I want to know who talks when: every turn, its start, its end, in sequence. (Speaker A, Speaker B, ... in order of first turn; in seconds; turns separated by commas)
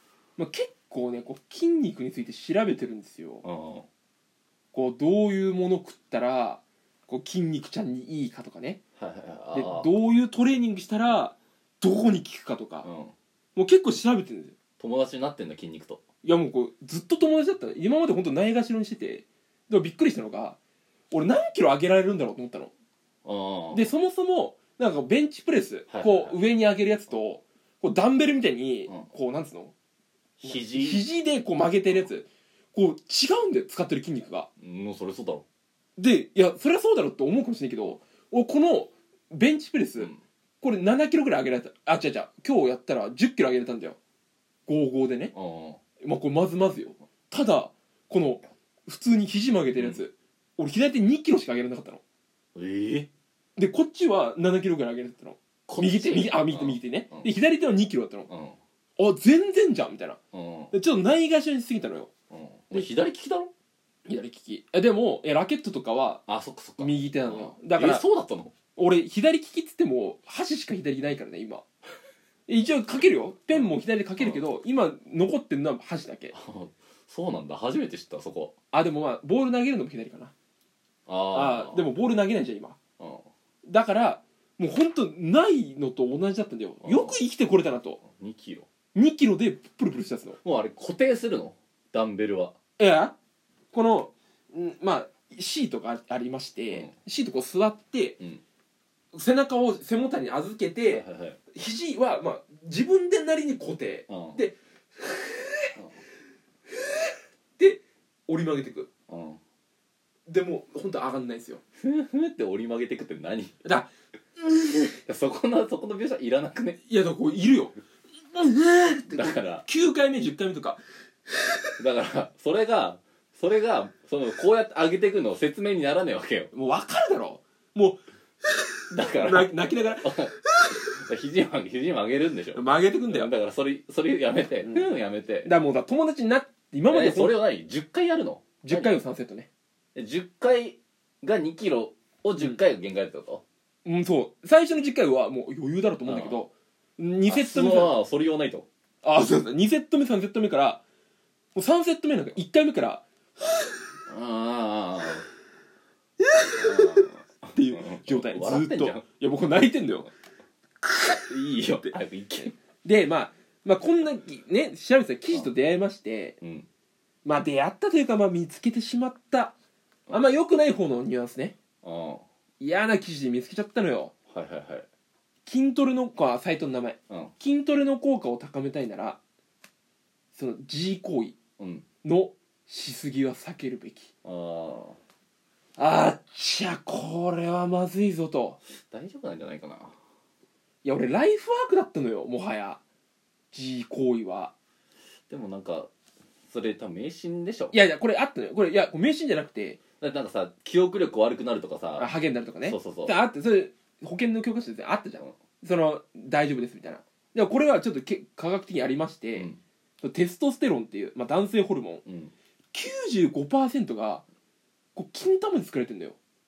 Speaker A: 0.4-3.5, Speaker B: 3.4-3.9, Speaker A: 4.7-8.8, Speaker B: 9.0-9.9, Speaker A: 9.5-12.9, Speaker B: 12.8-13.1, Speaker A: 13.6-14.6, Speaker B: 14.8-16.0, Speaker A: 16.2-20.6, Speaker A: 21.1-22.7, Speaker B: 23.2-23.9, Speaker A: 23.7-29.7, Speaker B: 25.9-26.4, Speaker B: 30.4-31.0, Speaker A: 30.4-34.5, Speaker B: 34.6-35.5, Speaker A: 36.0-40.1, Speaker A: 40.6-44.0, Speaker A: 44.7-45.3, Speaker B: 45.3-45.8, Speaker A: 46.0-52.0, Speaker B: 49.8-50.0, Speaker B: 52.5-53.1, Speaker A: 53.6-58.3, Speaker B: 55.7-57.3, Speaker B: 58.3-58.6, Speaker A: 59.0-60.2, Speaker B: 60.3-60.7, Speaker A: 60.7-62.1, Speaker B: 62.3-63.5, Speaker A: 64.1-66.2, Speaker B: 66.3-68.5, Speaker A: 66.8-68.0, Speaker A: 68.8-71.7, Speaker A: 72.5-76.3, Speaker B: 73.5-74.4, Speaker B: 76.3-78.5, Speaker A: 78.7-80.3, Speaker B: 81.1-81.9, Speaker A: 81.3-82.8, Speaker B: 83.0-83.3, Speaker A: 83.7-88.0, Speaker B: 86.8-87.2, Speaker B: 88.0-88.7, Speaker A: 88.9-90.4, Speaker B: 90.4-92.5, Speaker A: 92.8-93.2, Speaker A: 93.7-98.2, Speaker A: 99.1-105.8, Speaker B: 100.9-101.4, Speaker B: 104.1-104.4, Speaker A: 106.7-108.9, Speaker B: 109.1-109.4, Speaker A: 110.3-111.6, Speaker B: 111.8-113.6, Speaker A: 113.6-115.0, Speaker B: 115.1-116.8, Speaker A: 116.8-117.8, Speaker A: 118.3-120.8, Speaker B: 119.1-119.6, Speaker B: 121.8-126.5, Speaker A: 126.5-128.0, Speaker B: 128.9-135.5, Speaker A: 129.2-131.0, Speaker A: 132.5-133.3, Speaker A: 134.6-134.9, Speaker A: 135.4-137.4, Speaker B: 136.9-139.0, Speaker A: 138.6-139.5, Speaker B: 139.9-143.4, Speaker A: 143.8-147.9, Speaker B: 146.1-146.4, Speaker B: 147.3-148.7, Speaker A: 149.0-150.8, Speaker A: 151.6-153.7, Speaker B: 154.1-155.2, Speaker A: 156.2-160.1, Speaker B: 156.6-159.1, Speaker A: 160.8-161.3, Speaker B: 161.3-162.6, Speaker A: 161.8-166.4, Speaker B: 166.4-166.7, Speaker A: 167.2-169.5, Speaker A: 170.1-171.6, Speaker B: 171.8-172.2, Speaker A: 172.6-174.1, Speaker B: 174.3-174.9, Speaker A: 175.5-179.2, Speaker A: 180.3-181.4, Speaker B: 181.6-181.8, Speaker A: 182.0-184.1, Speaker B: 184.2-185.0, Speaker A: 185.8-188.6, Speaker B: 188.7-189.9, Speaker A: 190.8-192.8, Speaker A: 193.5-194.5, Speaker B: 195.3-195.9, Speaker B: 196.5-197.7, Speaker A: 197.7-199.8, Speaker B: 200.0-202.1, Speaker A: 202.0-209.5, Speaker B: 202.6-203.2, Speaker A: 210.0-212.0, Speaker B: 212.1-212.3, Speaker A: 212.7-214.2, Speaker A: 214.9-216.2